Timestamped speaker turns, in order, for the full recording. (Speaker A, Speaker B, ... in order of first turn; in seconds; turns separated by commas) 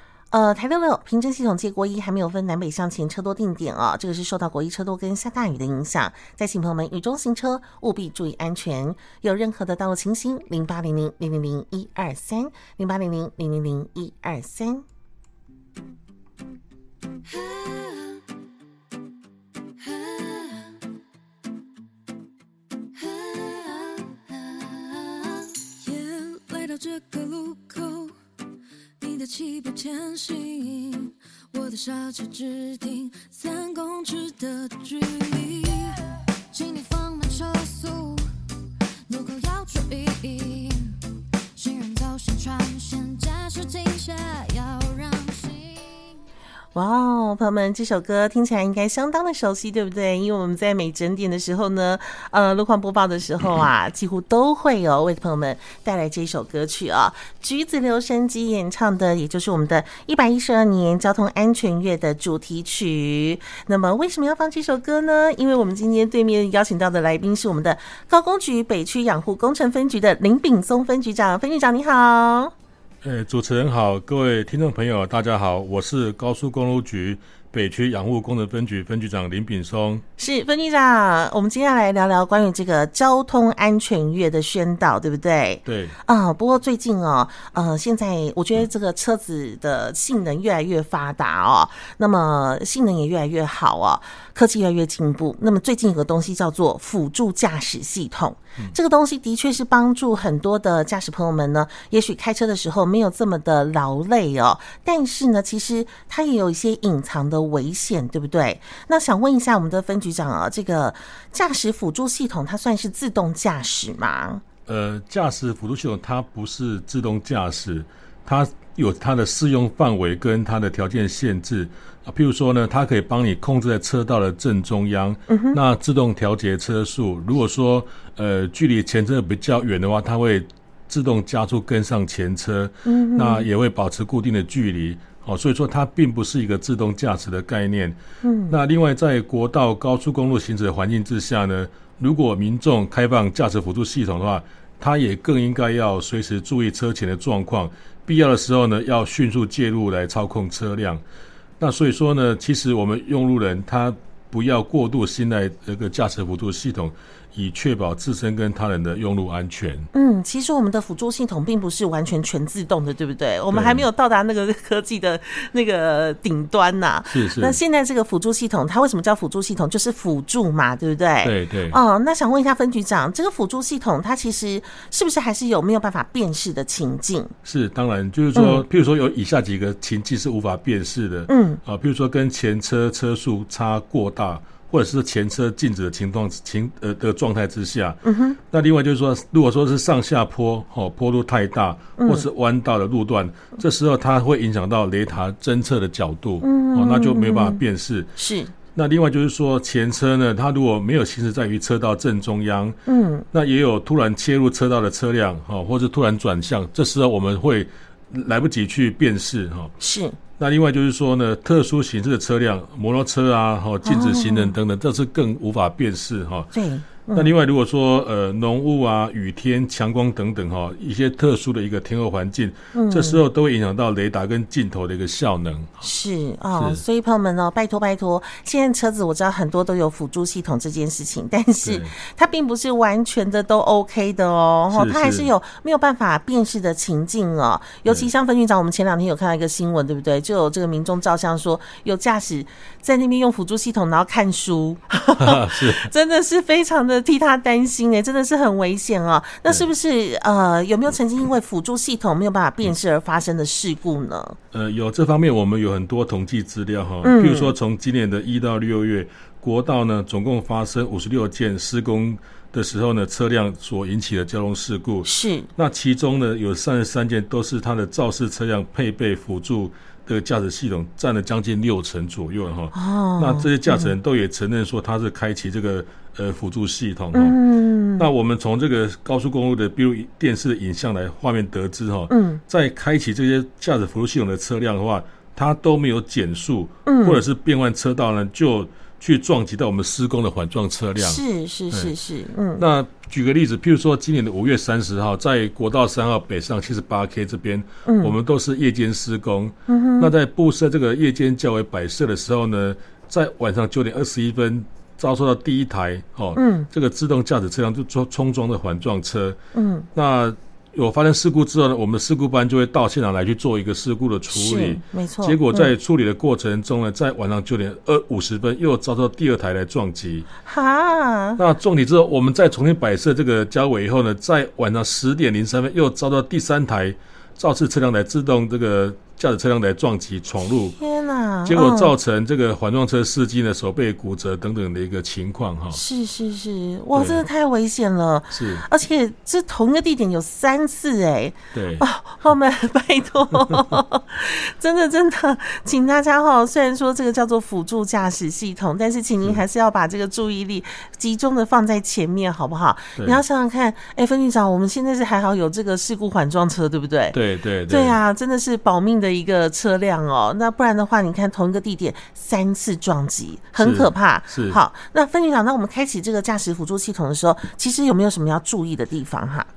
Speaker A: 0.3-14.8, Speaker B: 17.3-18.2, Speaker B: 19.8-20.8, Speaker B: 22.9-28.1, Speaker B: 29.0-38.3, Speaker B: 39.1-46.1, Speaker A: 46.7-72.5, Speaker C: 73.0-80.0, Speaker A: 80.2-114.4, Speaker C: 85.6-86.0, Speaker C: 114.7-138.0, Speaker A: 125.3-125.6, Speaker A: 132.8-133.4, Speaker A: 138.2-138.5, Speaker C: 138.5-151.0, Speaker C: 151.6-159.9, Speaker A: 159.9-177.3, Speaker C: 163.5-163.8, Speaker C: 167.1-167.6, Speaker C: 171.2-171.8, Speaker C: 177.4-198.1, Speaker A: 178.3-178.6, Speaker A: 181.3-181.6, Speaker A: 188.0-188.4, Speaker A: 192.0-192.2, Speaker A: 196.4-197.6, Speaker A: 198.2-198.5, Speaker C: 198.7-202.8, Speaker A: 202.8-203.3, Speaker C: 203.3-209.7, Speaker A: 209.8-210.2, Speaker C: 210.4-216.5, Speaker A: 213.8-214.6, Speaker A: 216.5-217.3, Speaker C: 217.1-225.8, Speaker A: 222.7-223.2, Speaker A: 225.8-254.4, Speaker C: 226.5-226.8, Speaker C: 231.6-231.9, Speaker C: 234.7-235.3, Speaker C: 245.2-245.9, Speaker C: 254.5-277.4, Speaker A: 257.0-257.5, Speaker A: 265.1-265.5, Speaker A: 272.7-273.9, Speaker A: 277.1-278.1, Speaker C: 278.0-291.9, Speaker A: 282.1-282.4, Speaker A: 286.9-287.2, Speaker A: 291.0-292.6, Speaker C: 292.6-309.4, Speaker A: 297.9-298.1, Speaker A: 299.7-300.1, Speaker A: 306.4-306.7, Speaker A: 309.5-309.9, Speaker C: 309.9-320.3, Speaker A: 314.3-315.7, Speaker A: 320.4-321.4, Speaker C: 321.4-330.8, Speaker A: 330.7-331.9, Speaker C: 331.4-335.8, Speaker A: 335.7-357.2, Speaker C: 336.9-337.2, Speaker C: 338.3-338.6, Speaker C: 341.5-341.9, Speaker C: 343.5-343.8, Speaker C: 353.0-353.2, Speaker C: 357.1-358.0, Speaker A: 357.7-369.5, Speaker C: 363.6-364.6